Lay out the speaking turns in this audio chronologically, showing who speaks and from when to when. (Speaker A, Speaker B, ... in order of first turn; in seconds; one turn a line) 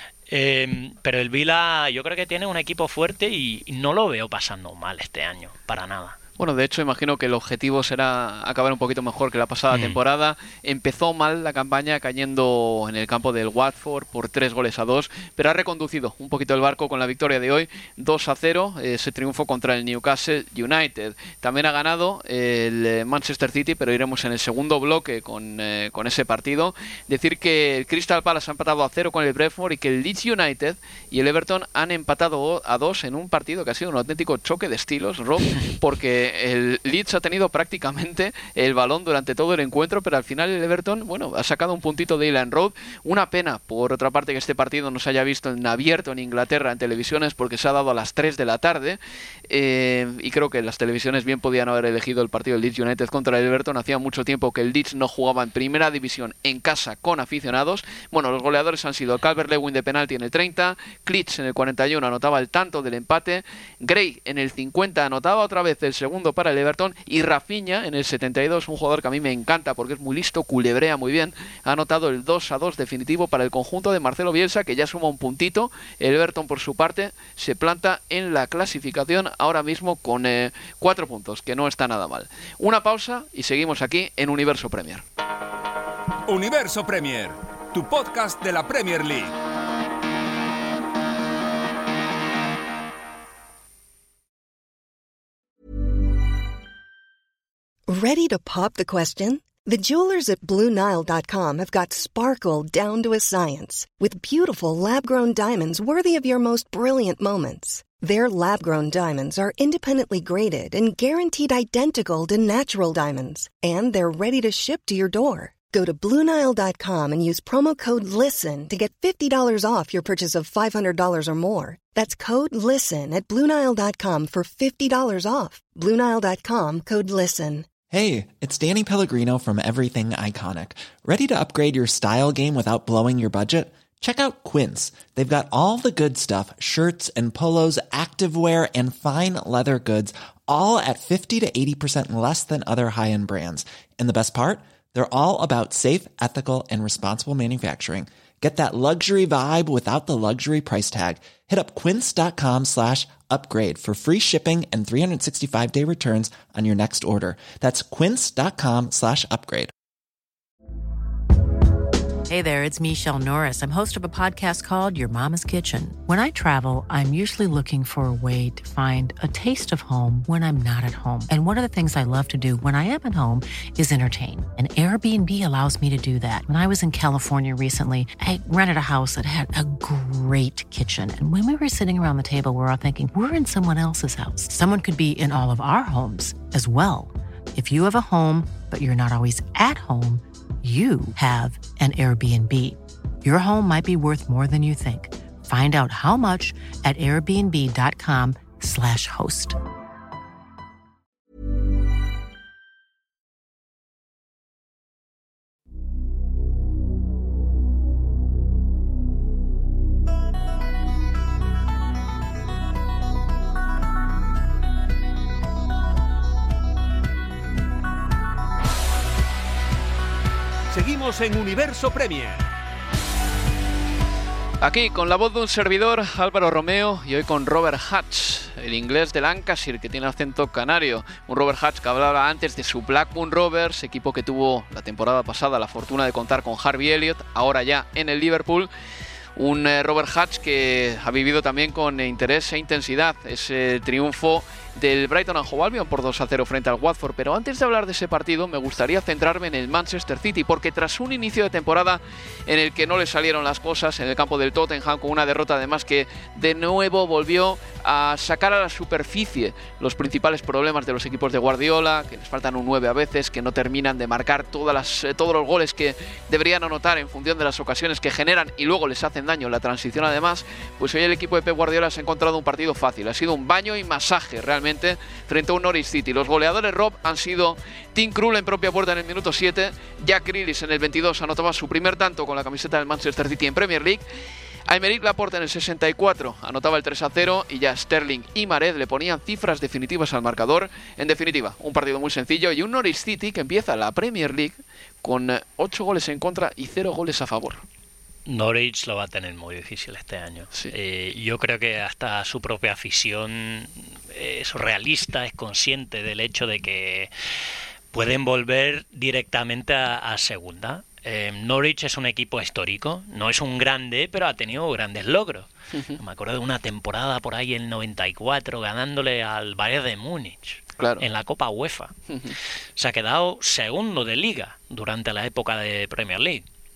Speaker A: 0.3-6.2
Speaker B: 6.4-85.0
Speaker A: 9.7-10.0
Speaker C: 86.3-89.3
Speaker D: 97.9-127.7
Speaker E: 127.9-159.7
Speaker F: 162.3-199.6
Speaker C: 220.7-222.5
Speaker B: 224.6-238.7
Speaker B: 239.3-284.0
Speaker B: 284.7-297.6
Speaker A: 298.3-307.1
Speaker A: 307.9-321.9
Speaker B: 320.8-321.0
Speaker A: 322.8-326.4